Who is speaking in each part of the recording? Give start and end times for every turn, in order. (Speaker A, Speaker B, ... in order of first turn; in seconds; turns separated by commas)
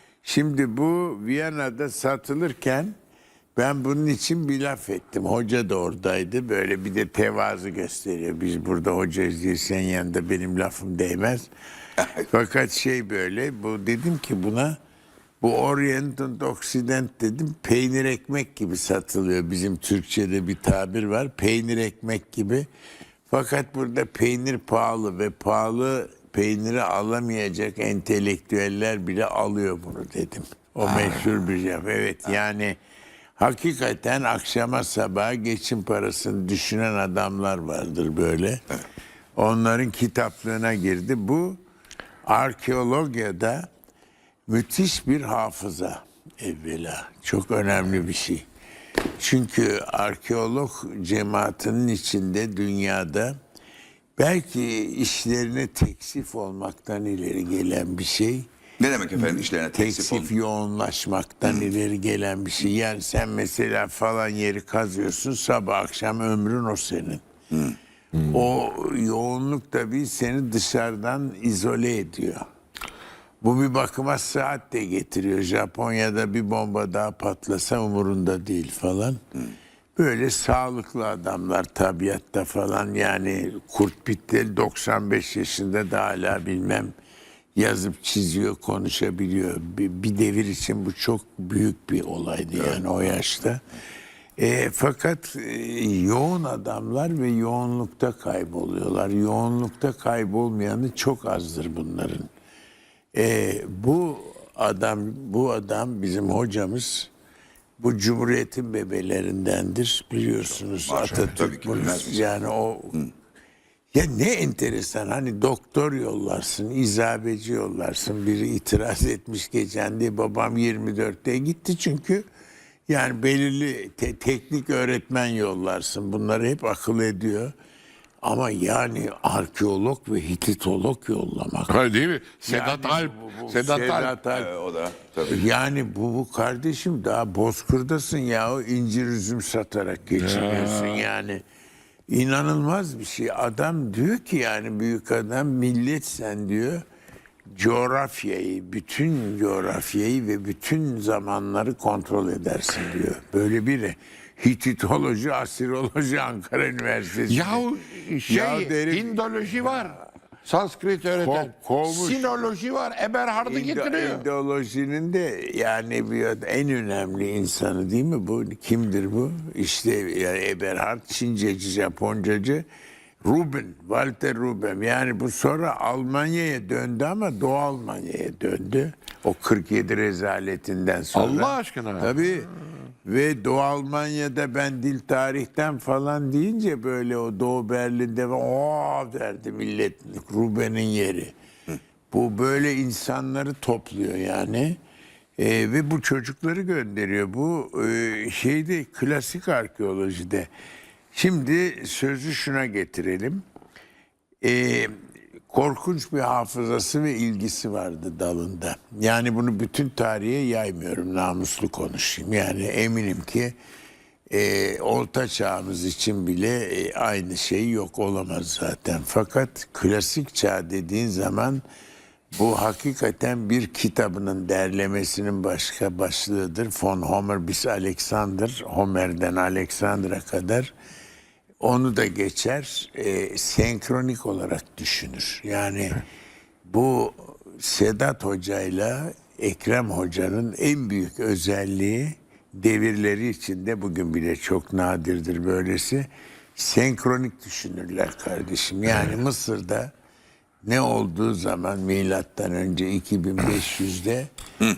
Speaker A: 0.2-2.9, Speaker A: 3.5-11.5, Speaker A: 12.2-14.8, Speaker A: 15.4-22.7, Speaker A: 23.3-32.8, Speaker A: 33.4-38.6, Speaker A: 39.4-41.6, Speaker A: 42.2-43.7, Speaker A: 44.5-48.4, Speaker A: 49.2-53.3, Speaker A: 54.2-58.5, Speaker B: 58.8-60.3, Speaker A: 59.1-67.2, Speaker A: 68.2-72.4, Speaker A: 73.4-79.2, Speaker A: 80.0-86.9, Speaker A: 87.5-93.6, Speaker A: 94.4-102.3, Speaker A: 103.1-107.1, Speaker A: 107.8-112.9, Speaker B: 110.8-112.3, Speaker A: 113.9-122.2, Speaker A: 122.9-127.5, Speaker A: 128.2-131.8, Speaker C: 131.7-134.2, Speaker A: 132.4-134.5, Speaker B: 134.3-135.4, Speaker A: 135.2-141.4, Speaker C: 140.2-141.1, Speaker A: 142.1-146.8, Speaker A: 147.5-157.7, Speaker C: 157.2-164.2, Speaker A: 158.3-160.0, Speaker A: 161.1-162.4, Speaker A: 163.4-172.6, Speaker A: 173.2-191.3, Speaker C: 181.1-182.1, Speaker A: 192.1-194.8, Speaker A: 195.4-200.5, Speaker A: 201.1-203.4, Speaker A: 204.4-204.9, Speaker A: 205.5-213.5, Speaker A: 214.3-221.6, Speaker A: 222.3-230.7, Speaker A: 231.6-236.1, Speaker A: 236.7-249.9, Speaker A: 250.6-254.3